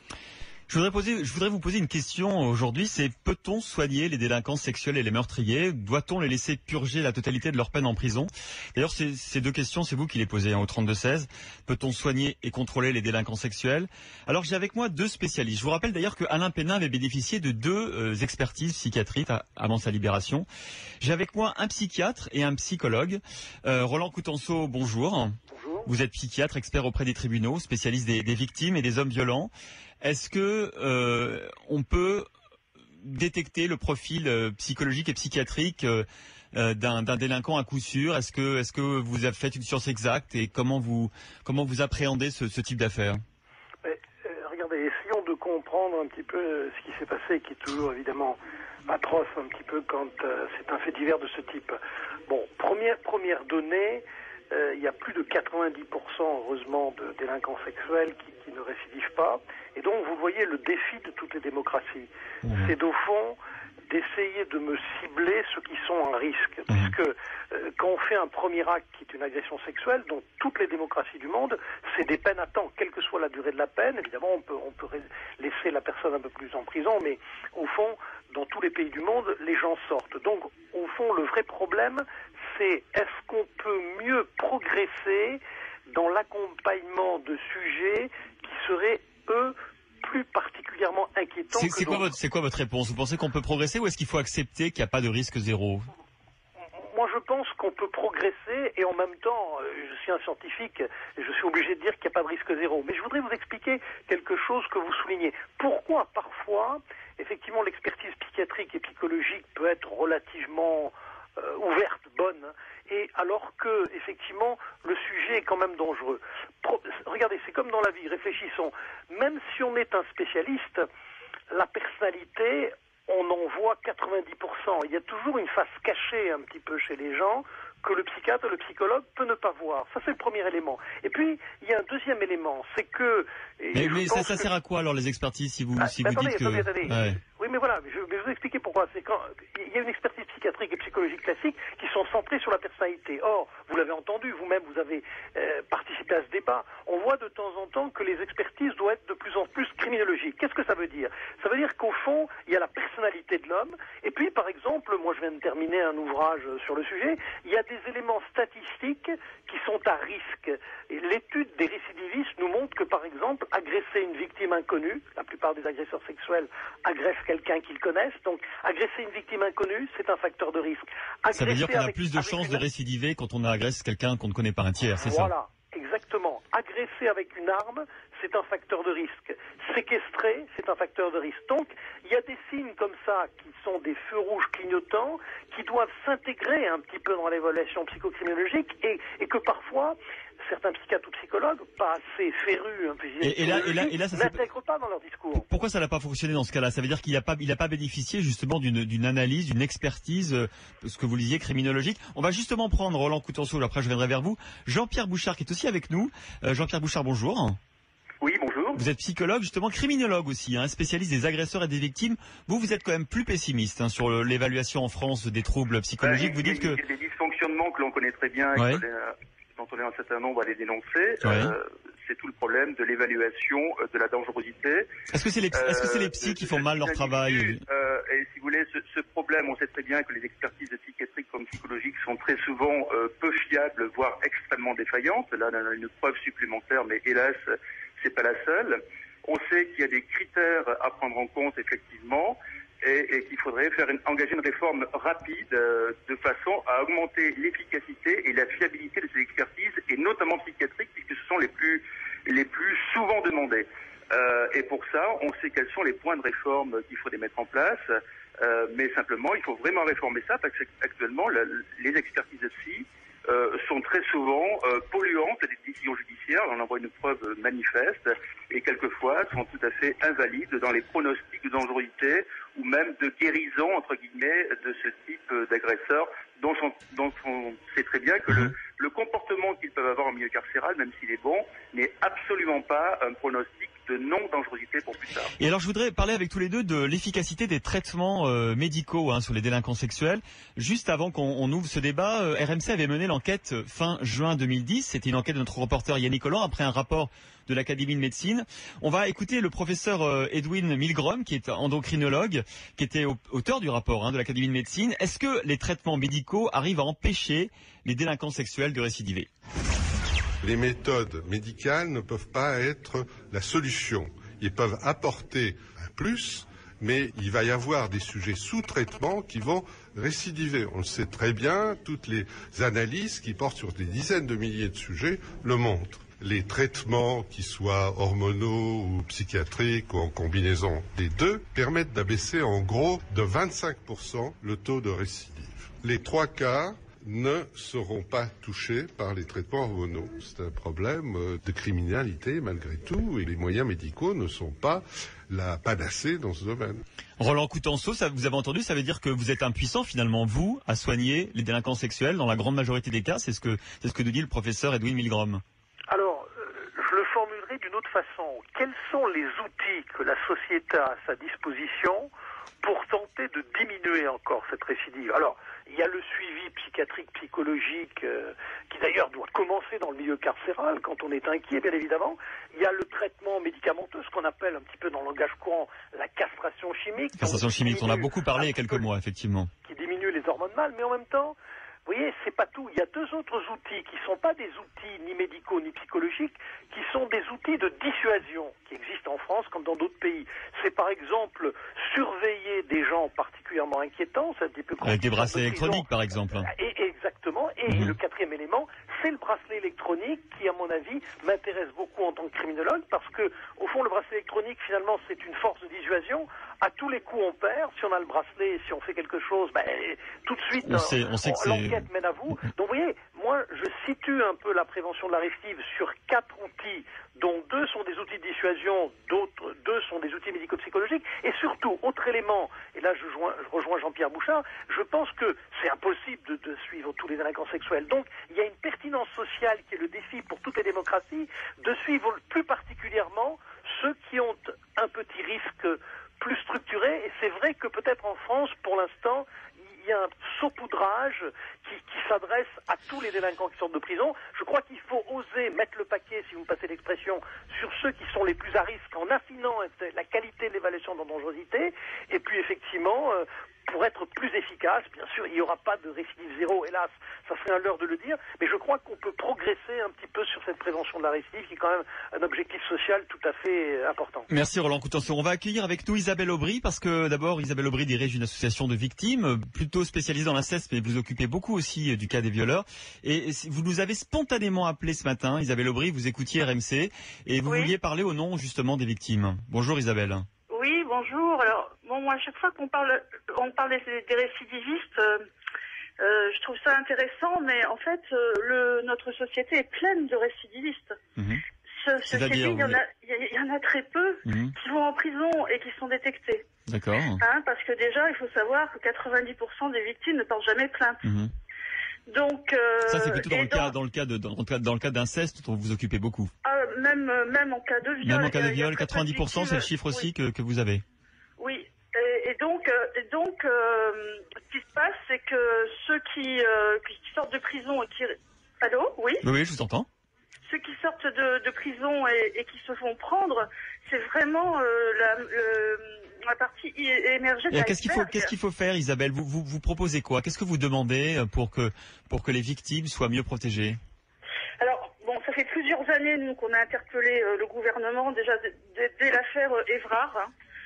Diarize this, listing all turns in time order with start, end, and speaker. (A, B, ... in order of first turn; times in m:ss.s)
0:00.7-0:20.5 A
0:21.0-0:29.5 A
0:25.5-0:25.9 B
0:30.0-0:32.3 A
0:33.0-0:43.2 A
0:43.8-1:02.1 B
1:02.4-1:02.7 A
1:02.6-1:32.1 B
1:31.5-1:35.9 A
1:36.8-2:00.9 B
2:01.5-2:14.4 B
2:13.7-2:17.2 A
2:15.8-2:52.6 B
2:51.3-2:55.3 A
2:55.0-3:15.5 B
3:13.2-3:14.4 A
3:15.3-3:27.6 A
3:28.2-3:28.8 C
3:28.8-3:36.8 A
3:36.0-3:44.9 C
3:38.5-3:38.8 A
3:41.2-3:41.5 A
3:45.1-3:47.6 A
3:45.5-3:57.4 C
3:58.0-4:17.8 C
4:18.4-4:45.3 C
4:45.4-5:09.3 A
5:10.4-5:46.8 D
5:47.2-5:55.4 A
5:55.9-6:02.1 B
6:02.6-6:18.8 B
6:17.2-6:19.5 A
6:19.6-7:44.3 B
6:34.8-6:36.5 A
6:37.7-6:38.0 A
6:50.6-6:51.9 A
7:44.3-8:00.3 A
7:57.4-7:57.7 E
8:00.5-8:05.3 E
8:06.0-8:11.0 E
8:11.7-8:16.4 E
8:12.0-8:12.8 A
8:14.3-8:14.5 A
8:16.7-8:17.2 A
8:17.2-8:21.1 E
8:21.0-8:21.3 A
8:22.1-8:23.7 E
8:22.8-8:26.3 A
8:26.4-8:30.1 E
8:28.0-8:30.8 A
8:31.4-8:39.2 E
8:39.2-8:39.9 A
8:40.4-8:48.3 E
8:47.5-8:53.8 A
8:54.6-9:00.3 E